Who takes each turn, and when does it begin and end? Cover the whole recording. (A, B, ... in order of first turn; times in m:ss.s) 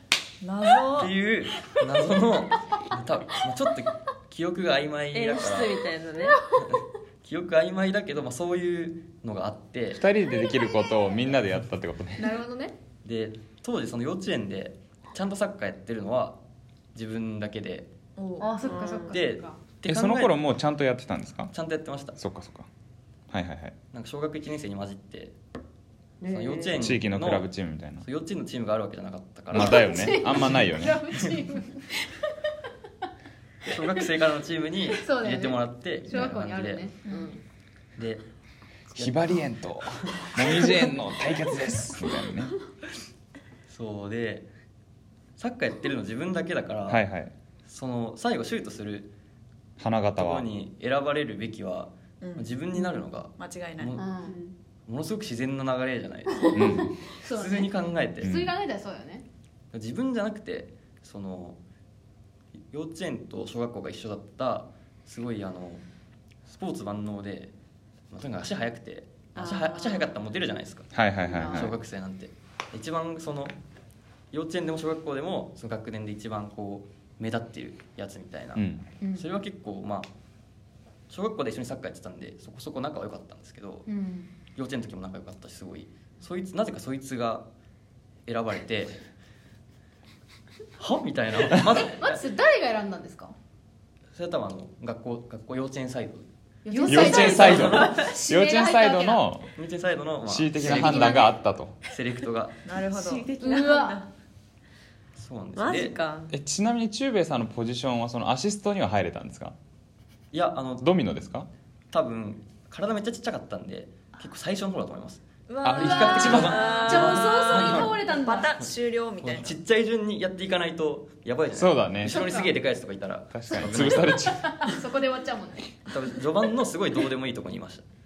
0:00.4-0:01.1 A
0:00.9-0:05.9 B
0:05.1-0:06.4 C
0:06.6-0:10.0 B
0:09.9-0:12.4 D
0:12.2-0:12.7 E
0:13.0-0:16.4 B
0:16.9-0:17.9 B
0:18.2-0:19.1 C
0:18.4-0:19.6 E
0:19.1-0:20.4 B
0:19.9-0:21.5 D
0:21.5-0:22.2 B
0:22.2-0:22.7 D
0:23.3-0:23.8 D
0:23.9-0:25.4 B
0:26.2-0:26.9 C
0:26.3-0:27.5 B
0:26.8-0:28.0 D
0:28.0-0:30.6 B
0:29.5-0:31.2 D
0:29.5-0:32.3 E
0:33.6-0:36.9 B
0:34.9-0:37.4 E
0:38.0-0:38.2 B
0:38.9-0:39.4 B
0:39.0-0:42.5 D
0:43.7-0:44.5 B
0:45.4-0:47.0 B
0:46.9-0:47.3 D
0:47.7-0:49.1 B
0:49.8-0:50.5 D
0:50.1-0:54.0 B
0:52.2-0:52.5 A
0:53.4-0:54.0 A
0:53.9-0:54.4 E
0:54.2-0:54.5 C
0:54.9-0:56.7 B
0:56.4-0:59.2 E
0:56.5-0:56.9 D
0:57.2-0:58.3 B
0:58.2-0:58.5 D
0:59.7-1:01.6 B
1:02.7-1:05.8 B
1:06.4-1:07.5 B
1:08.1-1:10.9 B
1:09.4-1:10.1 C
1:10.9-1:11.8 D
1:11.2-1:11.7 E
1:11.4-1:13.5 B
1:14.3-1:20.1 B
1:18.5-1:18.8 D
1:19.0-1:19.3 E
1:21.1-1:23.9 B
1:23.9-1:24.3 E
1:24.5-1:27.4 B
1:28.2-1:29.0 B
1:30.8-1:32.2 B
1:31.6-1:33.3 E
1:34.1-1:36.2 B
1:36.6-1:39.3 E
1:36.7-1:37.6 C
1:36.8-1:38.0 B
1:36.8-1:39.5 D
1:39.6-1:41.3 B
1:40.2-1:41.8 D
1:40.7-1:41.3 E
1:41.8-1:42.6 B
1:42.6-1:44.0 A
1:42.9-1:44.0 C
1:43.4-1:44.1 E
1:45.2-1:46.0 B
1:45.6-1:46.3 C
1:46.3-1:49.5 D
1:50.3-1:50.9 B
1:50.8-1:51.5 D
1:51.9-1:57.9 B
1:55.5-1:59.6 A
1:55.6-1:56.6 D
1:55.7-1:58.6 E
1:58.6-2:04.4 B
2:01.5-2:02.2 D
2:02.0-2:02.5 E
2:03.3-2:04.6 D
2:03.5-2:05.9 E
2:05.9-2:07.8 B